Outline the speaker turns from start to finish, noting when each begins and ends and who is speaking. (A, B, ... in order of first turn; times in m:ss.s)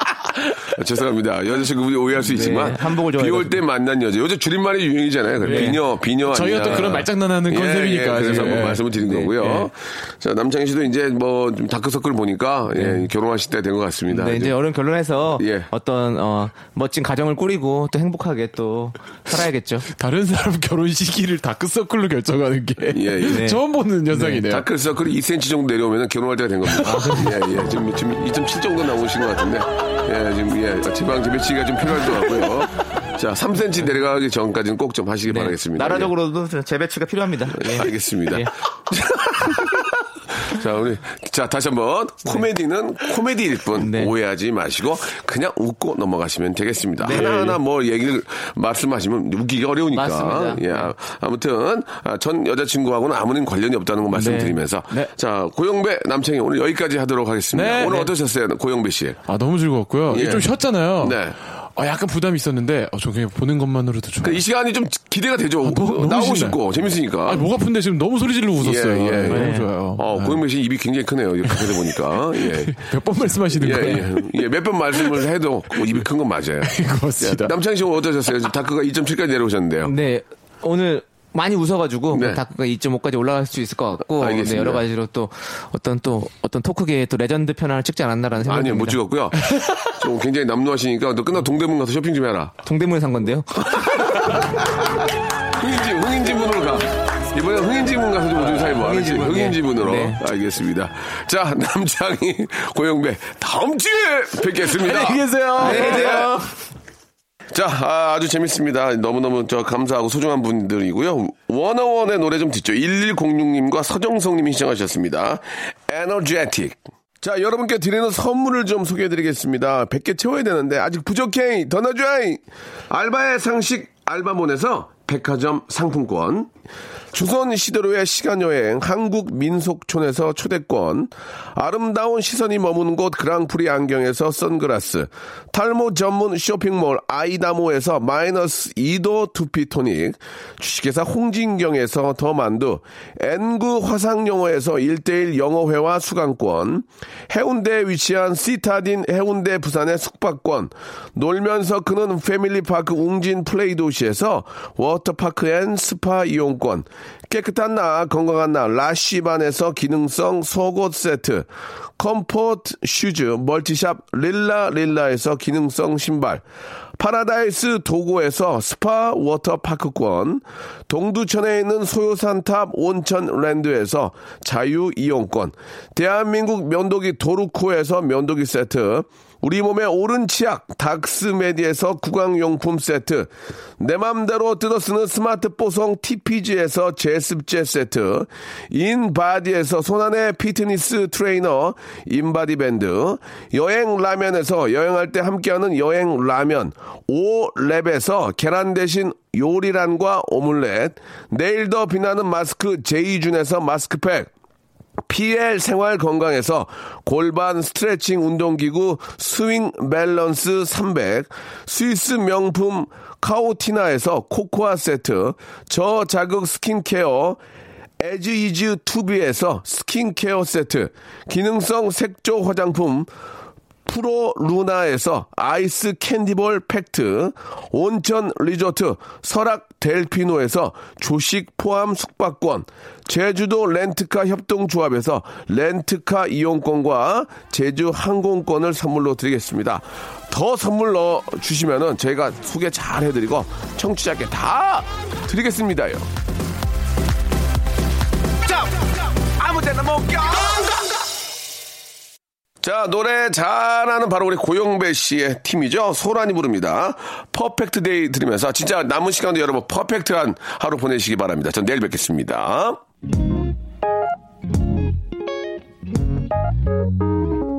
0:00.6-0:14.6 A
0:02.2-0:03.6 B
0:05.4-0:05.8 B
0:05.4-0:09.7 C
0:12.8-0:13.0 B
0:14.1-0:19.9 B
0:15.4-0:15.7 A
0:19.9-0:24.6 C
0:22.9-0:23.5 A
0:23.3-0:23.6 B
0:24.1-0:24.4 B
0:24.4-0:36.1 A
0:26.8-0:27.2 C
0:26.8-0:27.4 B
0:35.3-0:38.5 B
0:37.6-0:59.2 A
0:43.8-0:44.1 B
0:47.0-0:47.4 B
0:47.0-0:47.6 C
0:49.9-0:50.9 B
0:54.1-0:55.1 C
0:57.5-0:58.1 C
0:59.3-1:04.4 C
1:00.1-1:00.5 A
1:01.0-1:01.4 A
1:04.2-1:07.5 A
1:05.6-1:06.6 C
1:07.2-1:10.4 C
1:08.6-1:12.9 A
1:09.3-1:09.7 B
1:11.5-1:14.3 C
1:13.4-1:19.9 A
1:16.6-1:17.5 C
1:19.8-1:29.0 B
1:22.1-1:22.4 A
1:24.1-1:24.8 A
1:28.4-1:32.6 A
1:32.6-1:34.4 B
1:33.7-1:34.9 A
1:35.5-1:46.4 A
1:38.3-1:40.2 B
1:44.7-1:46.4 C
1:45.6-1:46.5 B
1:47.5-2:06.5 A
2:07.1-2:46.4 A
2:47.0-3:24.3 A
3:25.1-3:37.4 A
3:38.0-3:43.1 A
3:43.8-4:06.1 A
4:08.4-4:10.9 A
4:12.6-4:22.8 A